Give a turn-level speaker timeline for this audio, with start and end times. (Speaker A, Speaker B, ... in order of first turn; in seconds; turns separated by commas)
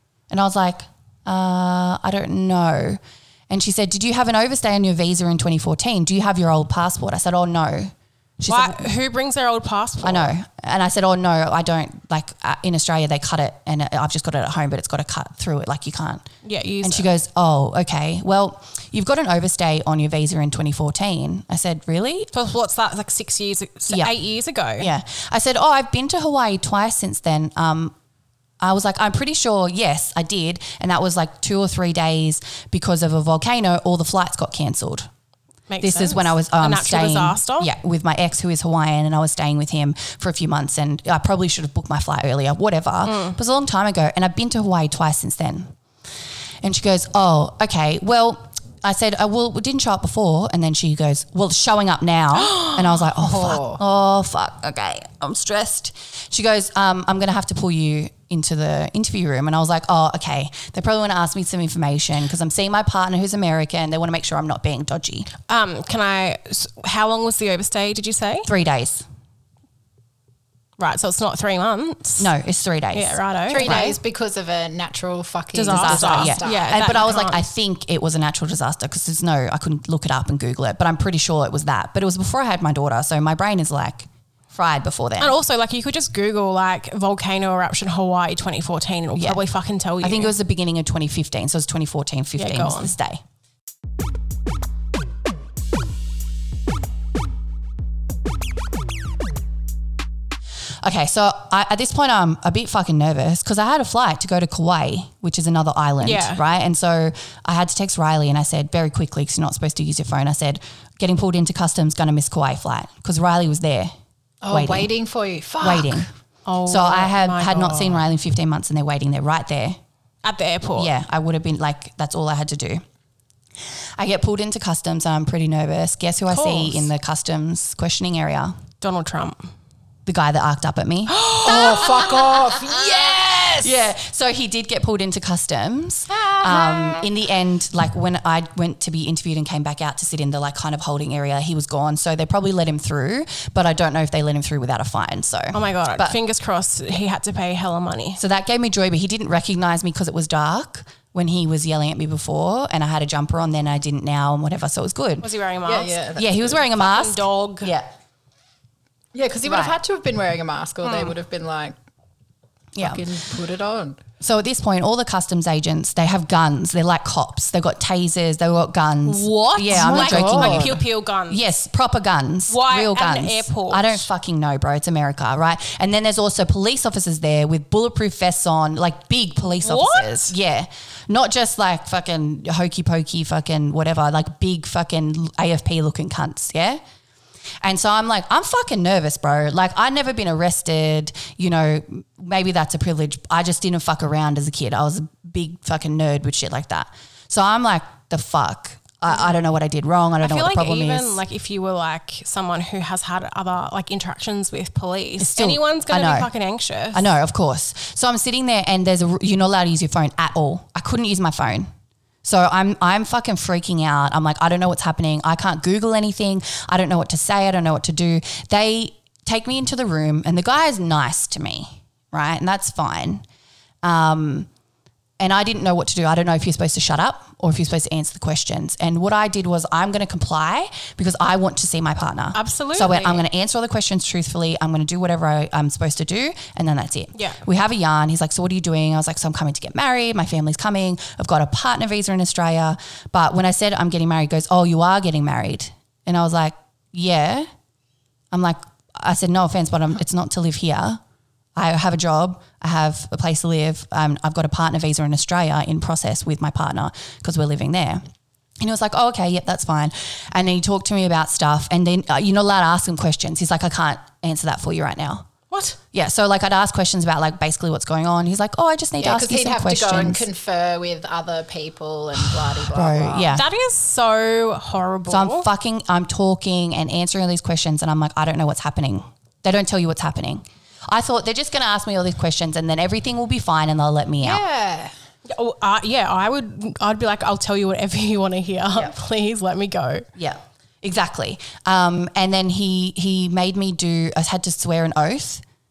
Speaker A: 0.3-8.9, Speaker B: 8.5-10.3, Speaker A: 10.0-16.3, Speaker B: 16.4-17.1, Speaker A: 16.8-22.3, Speaker B: 22.3-24.9, Speaker A: 23.9-24.2, Speaker A: 24.8-27.9, Speaker A: 28.6-35.1, Speaker B: 35.7-37.7, Speaker A: 35.8-45.7, Speaker B: 43.0-43.4, Speaker A: 46.6-65.3, Speaker B: 52.4-52.9, Speaker C: 53.2-53.8, Speaker B: 65.5-68.5, Speaker A: 68.5-69.0, Speaker B: 70.8-72.3, Speaker A: 72.2-74.0, Speaker B: 72.9-73.9, Speaker C: 73.5-76.8, Speaker B: 75.5-77.4, Speaker A: 75.7-85.3, Speaker B: 85.2-90.3, Speaker A: 89.2-89.4, Speaker A: 90.0-93.2, Speaker B: 92.4-92.9, Speaker A: 100.8-113.9, Speaker B: 106.0-106.4, Speaker C: 114.4-116.1, Speaker A: 114.5-114.9, Speaker A: 115.6-116.1, Speaker B: 116.5-118.0, Speaker A: 116.7-119.8, Speaker B: 120.2-120.9, Speaker A: 120.8-122.8, Speaker A: 124.0-128.6, Speaker B: 126.3-126.9, Speaker B: 128.8-129.5, Speaker A: 130.1-146.2, Speaker B: 131.1-131.8, Speaker C: 131.4-133.9, Speaker C: 136.1-137.1, Speaker B: 145.5-148.2, Speaker A: 148.2-155.3, Speaker B: 155.2-156.0, Speaker C: 155.7-156.5, Speaker A: 156.2-157.9, Speaker B: 156.7-157.7, Speaker C: 159.1-161.8, Speaker A: 159.4-159.8, Speaker B: 160.8-161.1, Speaker A: 162.8-163.0, Speaker C: 162.8-164.0, Speaker A: 164.2-186.8, Speaker B: 169.1-171.4, Speaker C: 169.7-170.8, Speaker B: 172.5-174.1, Speaker B: 179.6-180.3, Speaker A: 187.6-201.2, Speaker B: 200.2-207.1, Speaker A: 205.2-206.3, Speaker A: 206.9-211.7, Speaker A: 212.2-223.2, Speaker A: 223.8-224.5, Speaker A: 225.2-247.5, Speaker B: 232.3-233.2, Speaker B: 237.2-237.4, Speaker A: 248.3-251.0, Speaker A: 251.6-258.0, Speaker A: 258.6-265.3, Speaker B: 265.5-265.8, Speaker A: 265.9-270.3, Speaker C: 269.0-273.4, Speaker A: 272.7-273.5, Speaker B: 273.3-275.5, Speaker A: 275.1-284.4, Speaker C: 284.2-284.9, Speaker B: 285.3-290.1, Speaker A: 290.2-295.4